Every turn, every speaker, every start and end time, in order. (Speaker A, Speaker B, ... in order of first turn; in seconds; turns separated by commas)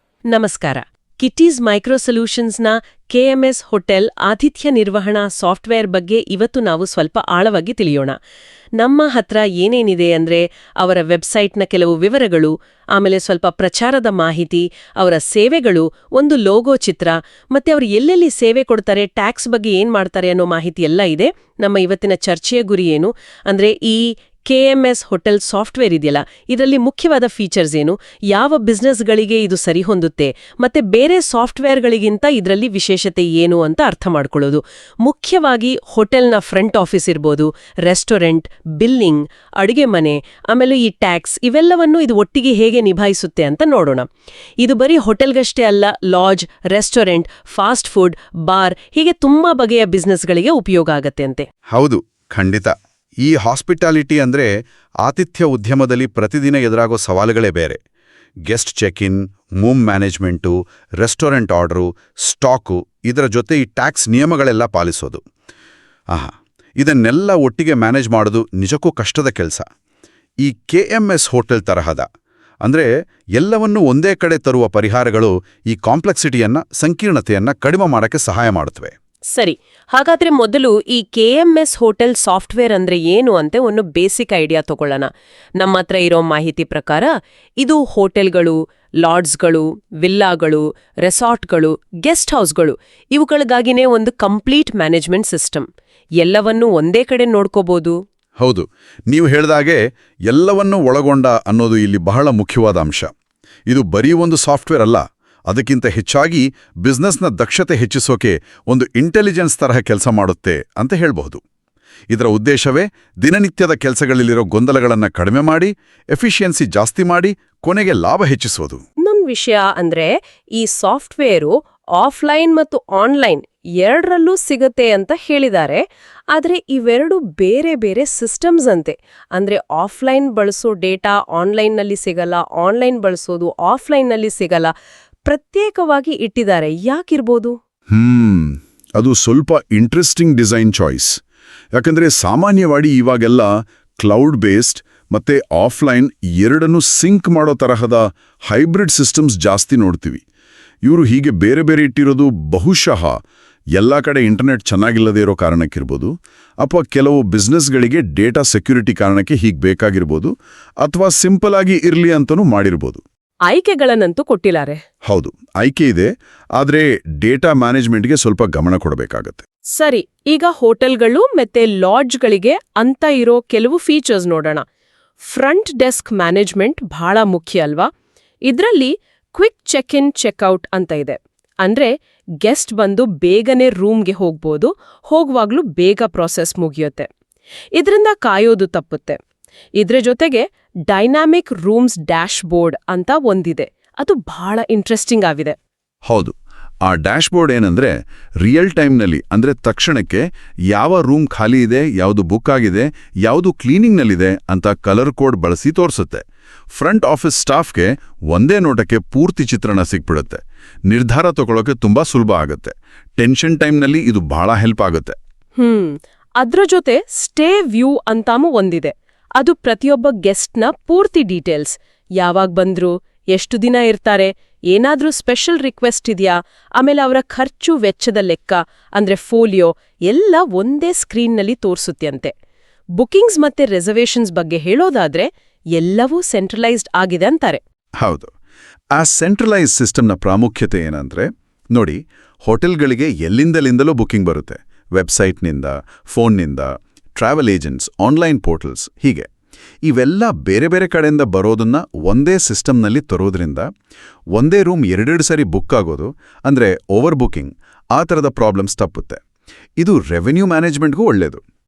Speaker A: 0.3-8.2, Speaker A: 8.8-44.1, Speaker A: 44.6-51.5, Speaker B: 51.7-52.7, Speaker B: 53.2-54.5, Speaker B: 55.0-57.8, Speaker B: 58.5-65.2, Speaker B: 66.1-69.7, Speaker B: 70.4-72.0, Speaker B: 72.6-78.9, Speaker A: 79.3-95.7, Speaker A: 96.2-98.0, Speaker B: 98.4-103.1, Speaker B: 103.7-111.4, Speaker B: 112.1-118.8, Speaker A: 119.0-134.7, Speaker A: 135.2-137.6, Speaker B: 137.9-141.2, Speaker B: 141.7-150.2, Speaker B: 150.8-153.2, Speaker B: 153.8-163.0, Speaker A: 163.5-164.8, Speaker B: 165.1-169.4, Speaker A: 169.7-174.6, Speaker A: 175.2-177.9, Speaker A: 178.5-187.1, Speaker A: 187.8-189.2, Speaker A: 189.8-195.6, Speaker B: 196.1-215.2, Speaker A: 215.6-232.3, Speaker A: 232.9-237.6, Speaker B: 238.0-238.3, Speaker B: 238.9-249.3, Speaker B: 249.8-253.7, Speaker B: 254.3-259.2, Speaker B: 259.8-261.4